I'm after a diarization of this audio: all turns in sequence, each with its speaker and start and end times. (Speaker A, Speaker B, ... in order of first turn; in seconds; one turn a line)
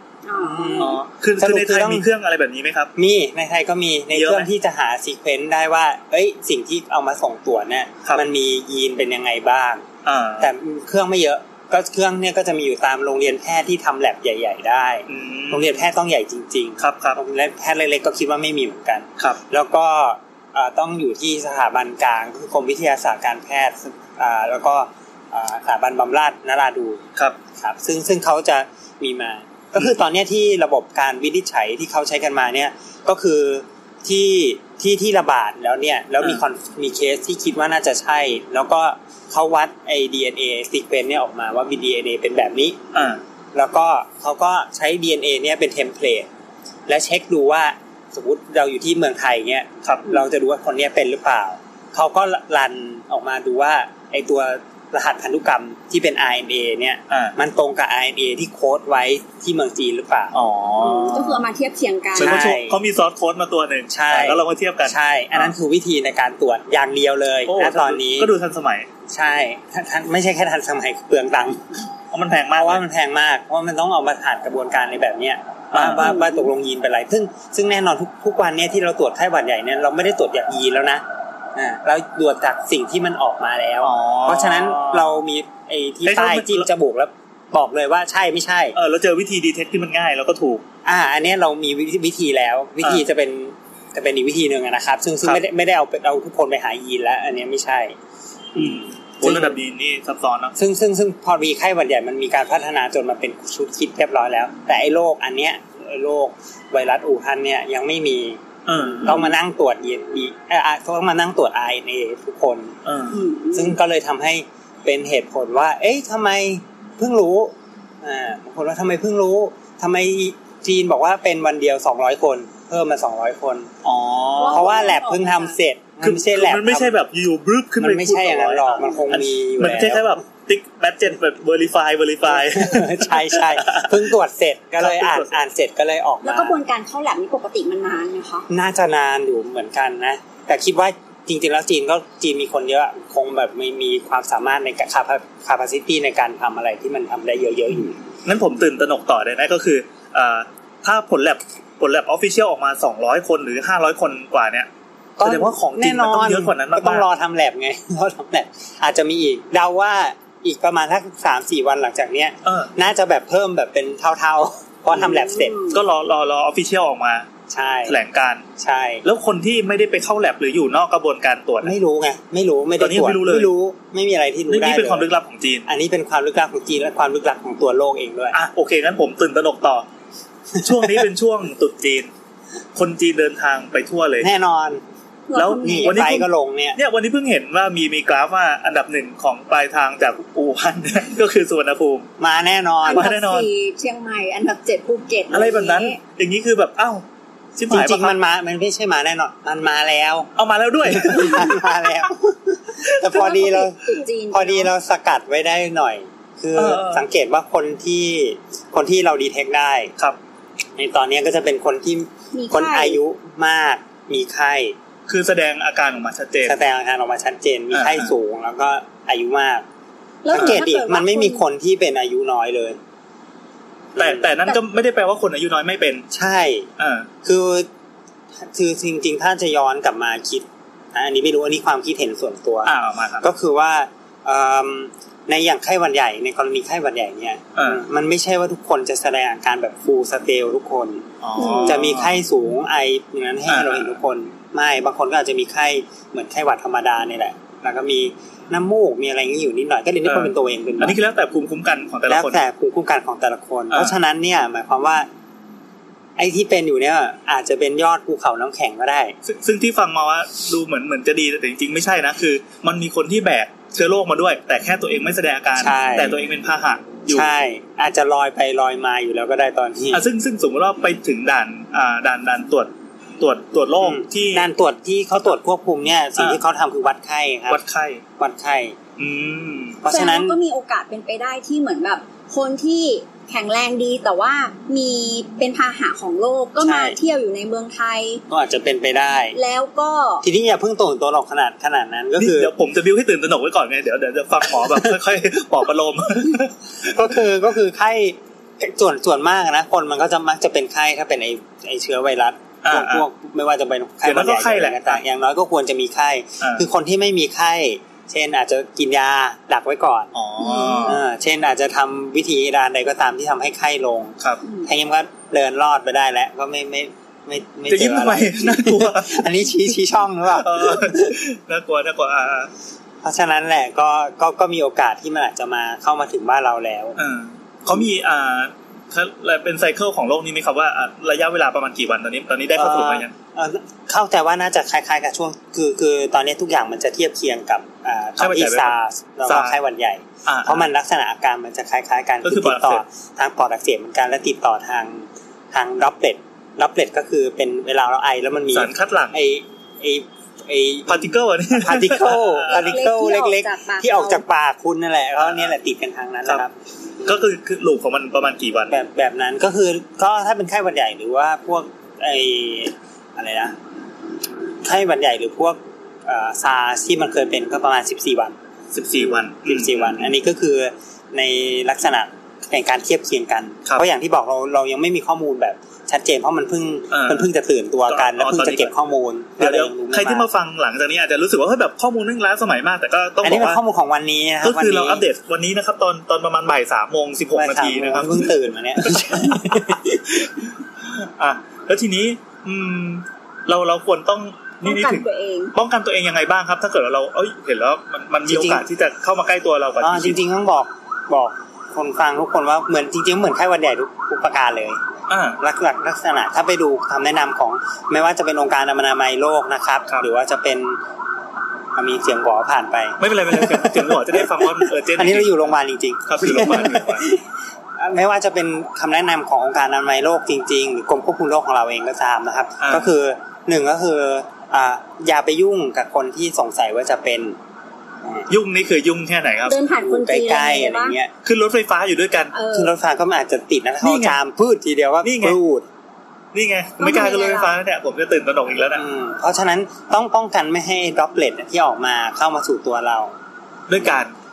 Speaker A: 0.2-1.0
Speaker B: 0.4-2.1
Speaker C: 0.8-2.9
Speaker B: 3.0-9.8
Speaker C: 4.1-4.5
Speaker C: 10.0-10.5
Speaker B: 10.4-27.0
Speaker C: 15.1-15.9
Speaker C: 16.8-17.2
Speaker B: 27.6-42.8
Speaker C: 42.9-43.2
Speaker B: 43.5-46.3
Speaker B: 46.9-60.4
Speaker C: 49.8-50.1
Speaker C: 57.1-57.4
Speaker C: 60.3-61.4
Speaker A: 60.8-62.4
Speaker B: 62.1-62.8
Speaker C: 62.2-65.5
Speaker B: 63.9-68.3
Speaker C: 67.5-68.9
Speaker B: 69.1-71.9
Speaker C: 72.1-72.8
Speaker B: 72.5-81.0
Speaker C: 75.7-76.2
Speaker A: 76.0-76.5
Speaker B: 81.5-88.8
Speaker C: 83.8-85.2
Speaker C: 86.0-86.7
Speaker C: 88.8-90.6
Speaker B: 90.8-98.0
Speaker B: 98.5-99.6
Speaker C: 98.5-100.5
Speaker B: 100.6-112.8
Speaker C: 108.7-109.3
Speaker C: 112.8-113.2
Speaker A: 113.1-113.8
Speaker B: 113.5-123.7
Speaker C: 123.8-124.9
Speaker A: 124.4-125.6
Speaker B: 124.5-127.0
Speaker C: 126.0-133.9
Speaker B: 127.8-130.2
Speaker B: 132.3-136.6
Speaker C: 134.8-135.4
Speaker A: 136.2-138.5
Speaker B: 138.5-148.0
Speaker C: 148.2-154.7
Speaker B: 155.2-165.6
Speaker C: 155.2-157.1
Speaker C: 162.4-162.7
Speaker A: 164.9-165.8
Speaker C: 165.7-167.2
Speaker B: 167.5-168.0
Speaker C: 167.9-168.4
Speaker B: 168.6-169.0
Speaker C: 169.0-171.8
Speaker B: 171.6-175.1
Speaker C: 172.8-173.5
Speaker C: 174.5-175.7
Speaker B: 175.7-178.4
Speaker C: 178.3-179.9
Speaker C: 180.6-182.1
Speaker C: 182.8-184.3
Speaker B: 184.2-184.8
Speaker A: 185.3-186.2
Speaker C: 185.3-192.1
Speaker B: 185.6-186.8
Speaker B: 192.2-193.1
Speaker A: 192.8-196.0
Speaker C: 192.9-193.5
Speaker C: 195.3-197.0
Speaker C: 197.6-198.2
Speaker B: 197.7-200.3
Speaker C: 200.4-201.9
Speaker B: 200.8-209.9
Speaker C: 202.8-203.3
Speaker A: 203.1-204.7
Speaker C: 206.5-207.0
Speaker B: 210.8-214.8
Speaker A: 212.3-213.0
Speaker C: 215.1-216.6
Speaker B: 216.4-219.6
Speaker C: 217.7-218.1
Speaker A: 220.2-221.4
Speaker B: 220.3-222.8
Speaker C: 220.3-220.6
Speaker B: 223.9-224.3
Speaker C: 223.9-226.1
Speaker B: 226.1-226.7
Speaker C: 226.8-227.1
Speaker B: 227.2-227.7
Speaker B: 228.4-241.0
Speaker C: 232.6-233.3
Speaker C: 237.6-237.8
Speaker C: 241.2-242.2
Speaker A: 241.4-241.8
Speaker B: 241.6-251.0
Speaker C: 243.5-243.9
Speaker C: 250.1-252.4
Speaker B: 252.1-255.1
Speaker C: 253.7-254.0
Speaker B: 256.2-259.1
Speaker C: 259.2-267.3
Speaker B: 265.6-266.2
Speaker B: 267.1-270.1
Speaker C: 269.9-274.5
Speaker B: 273.8-277.6
Speaker C: 277.5-278.0
Speaker B: 278.2-278.8
Speaker C: 279.0-279.8
Speaker B: 279.8-280.4
Speaker A: 279.9-288.2
Speaker B: 286.6-287.0
Speaker B: 288.3-289.4
Speaker A: 289.3-290.2
Speaker B: 290.2-292.5
Speaker C: 292.2-297.0
Speaker B: 296.8-310.1
Speaker C: 302.6-303.1
Speaker C: 304.0-305.0
Speaker C: 306.4-306.7
Speaker C: 310.1-311.0
Speaker A: 310.4-311.0
Speaker B: 310.8-321.2
Speaker C: 317.7-319.3
Speaker C: 320.3-322.5
Speaker B: 323.0-327.0
Speaker C: 327.0-333.1
Speaker B: 332.5-356.5
Speaker C: 338.2-339.6
Speaker C: 340.2-340.7
Speaker C: 342.2-342.8
Speaker C: 348.5-349.2
Speaker C: 350.9-352.8
Speaker A: 352.5-354.2
Speaker C: 355.2-355.5
Speaker C: 357.0-358.8
Speaker B: 358.7-363.5
Speaker B: 364.6-368.4
Speaker C: 368.7-370.0
Speaker B: 369.3-380.3
Speaker C: 376.9-377.3
Speaker C: 377.9-378.7
Speaker C: 379.4-383.6
Speaker B: 383.2-385.1
Speaker C: 384.4-388.3
Speaker B: 387.3-390.2
Speaker C: 388.8-400.2
Speaker A: 394.6-395.5
Speaker B: 398.2-398.7
Speaker B: 399.8-404.8
Speaker C: 405.1-405.4
Speaker B: 405.4-410.8
Speaker B: 411.8-417.2
Speaker C: 413.0-415.5
Speaker C: 416.1-417.1
Speaker B: 417.8-427.4
Speaker C: 422.6-422.9
Speaker C: 428.3-429.6
Speaker A: 429.5-431.0
Speaker B: 429.8-431.1
Speaker C: 431.2-432.3
Speaker A: 432.3-432.7
Speaker B: 432.5-435.7
Speaker C: 433.8-434.2
Speaker C: 435.0-435.4
Speaker C: 436.3-438.8
Speaker A: 436.8-437.5
Speaker B: 438.8-443.1
Speaker C: 443.7-444.1